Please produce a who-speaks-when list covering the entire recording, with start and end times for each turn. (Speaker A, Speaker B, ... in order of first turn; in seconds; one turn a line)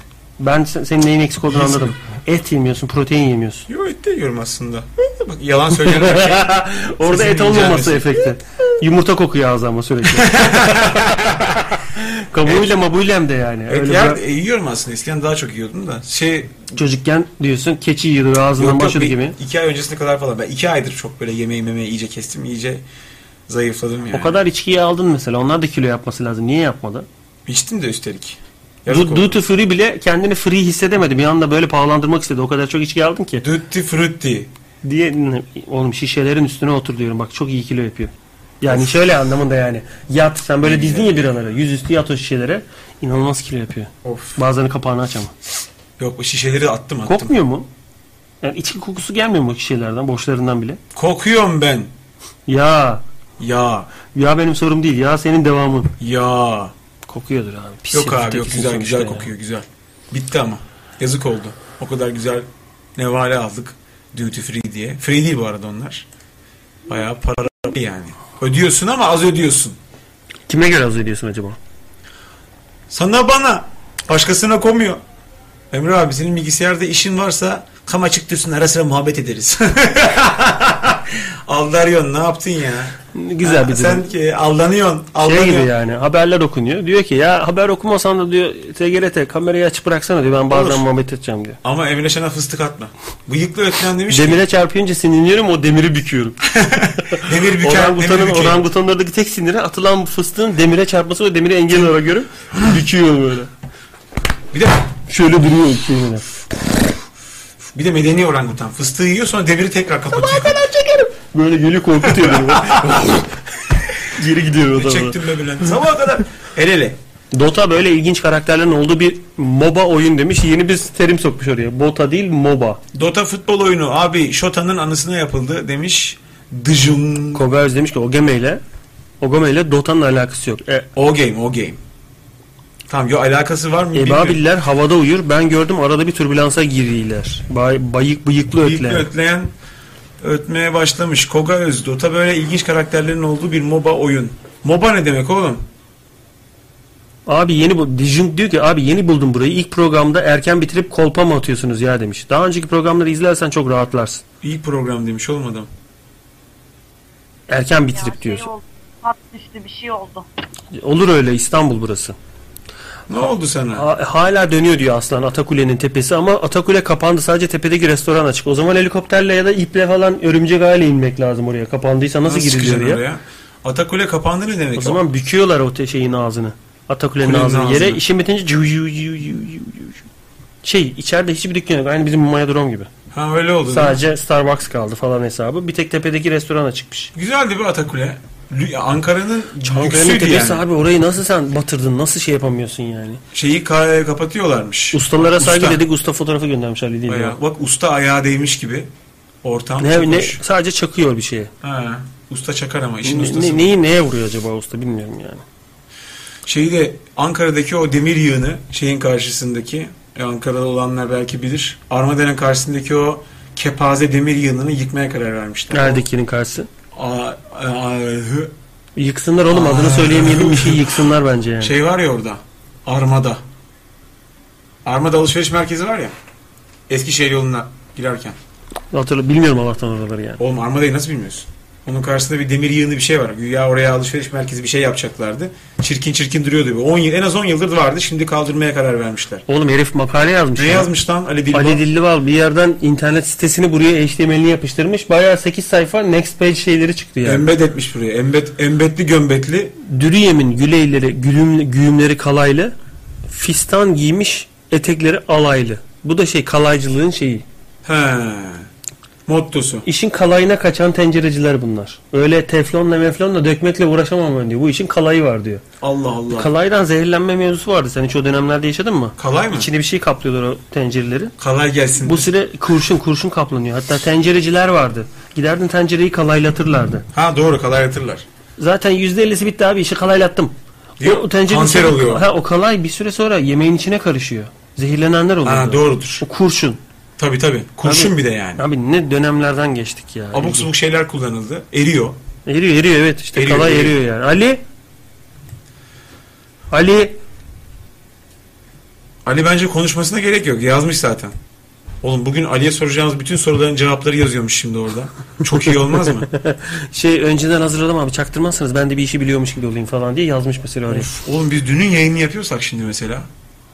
Speaker A: 0.4-3.7
Speaker B: 1.5-1.9
Speaker B: 3.7-8.3
Speaker A: 5.9-11.3
Speaker B: 10.1-11.7
Speaker A: 11.9-14.2
Speaker B: 12.4-12.8
Speaker B: 13.7-16.7
Speaker A: 16.7-19.4
Speaker B: 18.6-22.8
Speaker B: 23.5-24.4
Speaker A: 24.1-27.1
Speaker B: 27.5-29.4
Speaker A: 28.9-33.4
Speaker B: 33.4-34.5
Speaker A: 34.8-45.3
Speaker B: 38.7-39.0
Speaker B: 40.6-41.3
Speaker B: 44.0-44.4
Speaker B: 46.0-47.4
Speaker A: 47.1-47.7
Speaker A: 48.4-50.8
Speaker B: 51.0-51.9
Speaker A: 52.5-53.0
Speaker B: 53.4-53.9
Speaker A: 54.1-55.9
Speaker B: 56.0-56.7
Speaker A: 57.1-59.3
Speaker B: 57.9-66.0
Speaker B: 66.9-69.8
Speaker A: 70.5-71.6
Speaker B: 72.9-75.0
Speaker B: 75.7-85.7
Speaker A: 83.1-84.1
Speaker A: 85.2-91.6
Speaker B: 90.5-90.8
Speaker B: 91.6-94.4
Speaker A: 94.1-96.4
Speaker B: 96.5-98.6
Speaker A: 97.0-103.5
Speaker B: 104.5-104.9
Speaker A: 105.1-106.3
Speaker B: 107.8-110.6
Speaker A: 110.1-113.4
Speaker B: 112.0-113.0
Speaker A: 114.0-115.2
Speaker B: 114.7-117.0
Speaker A: 117.3-122.8
Speaker B: 122.9-127.4
Speaker A: 127.3-128.6
Speaker A: 129.2-130.9
Speaker B: 130.9-131.8
Speaker B: 132.9-134.4
Speaker A: 133.9-139.1
Speaker B: 138.6-139.5
Speaker B: 140.2-145.6
Speaker A: 147.3-154.2
Speaker B: 154.4-155.7
Speaker A: 157.5-158.5
Speaker C: 158.1-160.2
Speaker A: 160.7-162.2
Speaker B: 163.1-163.9
Speaker A: 163.7-173.0
Speaker B: 172.2-175.0
Speaker A: 174.8-180.0
Speaker B: 177.2-178.0
Speaker A: 180.6-182.9
Speaker B: 183.1-184.0
Speaker A: 183.7-187.1
Speaker B: 187.1-190.7
Speaker A: 189.7-193.2
Speaker B: 193.3-195.8
Speaker A: 194.9-197.4
Speaker B: 197.1-198.9
Speaker B: 199.4-200.4
Speaker A: 199.8-201.5
Speaker B: 201.6-203.7
Speaker A: 203.0-205.4
Speaker B: 206.5-216.1
Speaker A: 215.7-216.7
Speaker B: 216.9-218.5
Speaker A: 219.0-221.8
Speaker B: 219.5-221.1
Speaker B: 221.6-223.4
Speaker B: 224.8-226.2
Speaker B: 226.9-228.4
Speaker A: 228.9-230.4
Speaker B: 230.4-239.4
Speaker A: 239.5-240.9
Speaker B: 240.6-241.8
Speaker A: 241.5-247.5
Speaker B: 247.2-249.8
Speaker A: 249.8-252.7
Speaker A: 253.3-257.4
Speaker B: 257.9-258.7
Speaker B: 259.3-259.9
Speaker A: 259.9-265.6
Speaker B: 265.8-266.5
Speaker A: 266.3-271.3
Speaker B: 269.2-269.7
Speaker B: 271.4-272.3
Speaker A: 272.0-277.1
Speaker B: 277.1-278.2
Speaker A: 278.6-286.8
Speaker B: 281.0-282.2
Speaker B: 285.4-286.2
Speaker B: 287.2-288.7
Speaker A: 287.8-290.7
Speaker B: 290.3-292.2
Speaker A: 292.5-294.6
Speaker B: 293.3-294.0
Speaker A: 296.7-297.2
Speaker B: 299.2-301.4
Speaker B: 302.0-306.3
Speaker A: 306.2-311.1
Speaker B: 310.9-313.3